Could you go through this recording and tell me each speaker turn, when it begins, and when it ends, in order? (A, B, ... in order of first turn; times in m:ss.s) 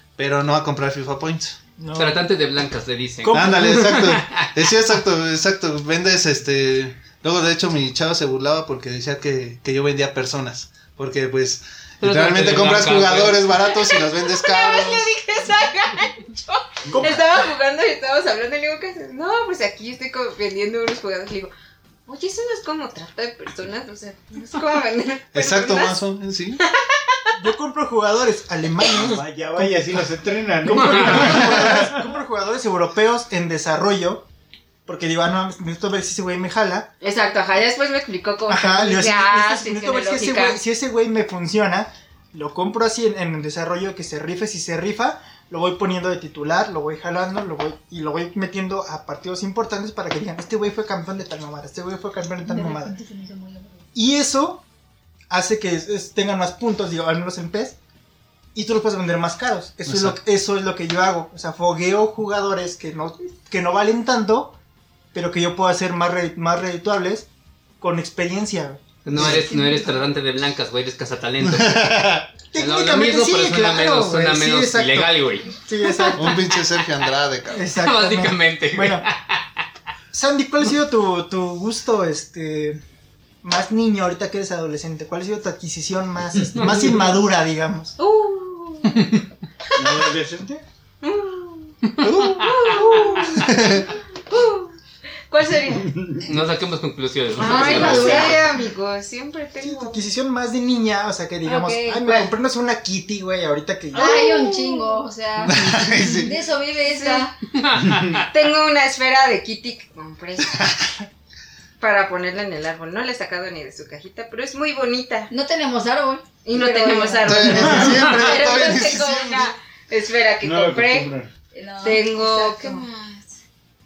0:00.2-0:01.6 A
0:01.8-0:02.2 B
0:02.0-0:04.5 C
0:03.2-0:03.8 B
0:03.3-0:15.1 A
0:12.0-0:13.6 C
0:13.8-0:21.5 D
0:16.9-0:17.2 B
0:22.1-0:26.0 D
0:25.3-0:26.6 A
0:26.6-0:27.2 D
0:27.4-0:29.8 B
0:29.0-0:31.9 E
0:30.6-0:34.2 B
0:30.8-0:31.3 C
0:31.5-0:31.8 A
0:34.9-0:36.9 B
0:37.0-0:40.6 D
0:38.5-0:53.0 B
0:52.4-0:53.8 F
0:54.0-0:54.6 B
0:55.3-0:57.8 B
0:58.6-1:04.6 B
0:59.9-1:00.2 A
1:05.1-1:07.3 B
1:07.8-1:09.4 B
1:09.0-1:15.5 C
1:09.2-1:10.1 F
1:11.4-1:12.3 A
1:12.5-1:16.3 B
1:16.2-1:17.7 A
1:17.5-1:19.1 B
1:17.8-1:19.4 C
1:20.1-1:22.8 B
1:23.4-1:28.0 B
1:26.6-1:26.9 E
1:28.0-1:29.1 D
1:29.8-1:30.6 E
1:31.0-1:34.7 D
1:32.0-1:32.9 C
1:32.0-1:32.4 A
1:33.4-1:33.9 A
1:35.3-1:36.0 D
1:35.8-1:36.3 E
1:36.2-1:38.4 C
1:37.4-1:40.0 D
1:37.4-1:38.4 F
1:39.6-1:44.3 B
1:41.4-1:42.2 F
1:43.9-1:47.3 F
1:44.0-1:45.0 D
1:45.4-1:46.3 A
1:46.8-1:47.3 D
1:47.6-1:48.2 C
1:48.2-1:50.7 D
1:51.8-1:55.3 D
1:55.3-1:58.9 F
1:56.4-2:01.1 D
1:57.2-1:59.5 A
2:00.4-2:01.3 E
2:01.5-2:02.8 F
2:01.8-2:03.4 D